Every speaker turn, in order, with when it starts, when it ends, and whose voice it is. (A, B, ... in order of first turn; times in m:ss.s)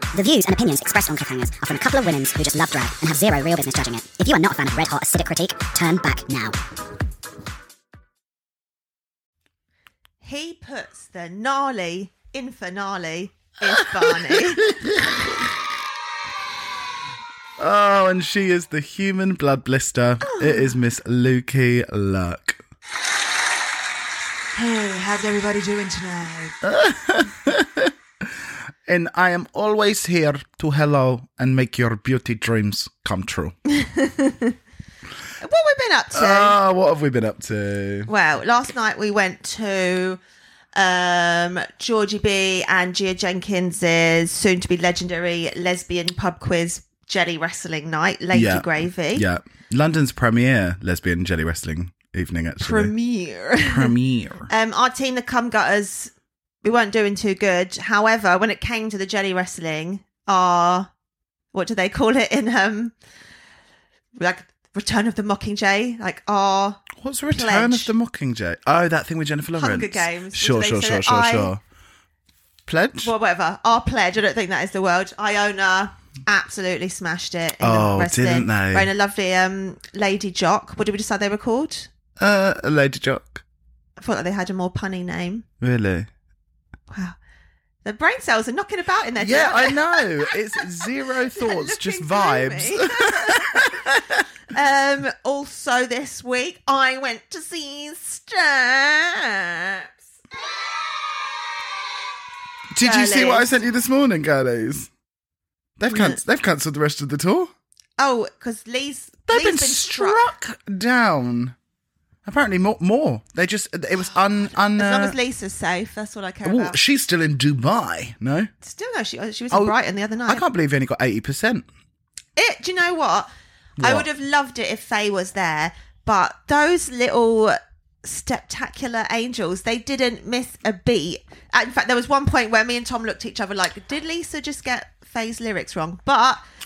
0:00.1-0:06.5 A
0:10.2-0:14.7 B
0:13.7-0:15.5 C
0:17.6-0:22.6 C
0:20.2-0:20.7 B
0:24.6-0:26.6 B
0:26.6-0:33.6 C
0:33.7-0:34.5 B
0:35.4-0:36.6 B
0:36.1-0:38.1 C
0:38.1-0:40.2 B
0:40.7-0:49.2 B
0:48.3-0:52.9 C
0:52.6-0:53.9 B
0:53.6-0:54.5 C
0:54.5-0:56.1 B
0:56.6-1:00.9 B
1:01.5-1:03.0 B
1:04.2-1:07.9 B
1:07.0-1:11.6 C
1:09.6-1:11.5 B
1:12.7-1:13.1 C
1:13.0-1:21.9 B
1:17.6-1:18.9 C
1:22.2-1:23.4 C
1:24.0-1:25.5 B
1:25.6-1:26.1 C
1:26.9-1:27.2 B
1:27.8-1:30.7 B
1:29.2-1:34.2 C
1:31.3-1:33.7 B
1:34.5-1:39.9 B
1:42.7-1:44.9 C
1:42.8-1:43.5 B
1:45.8-1:47.5 C
1:45.9-1:46.2 B
1:48.0-1:50.3 B
1:49.3-1:51.6 C
1:52.2-1:55.2 C
1:54.6-1:56.8 B
1:56.4-1:58.5 C
1:58.6-2:00.4 B
2:00.3-2:01.7 C
2:02.4-2:16.4 B
2:03.8-2:04.1 C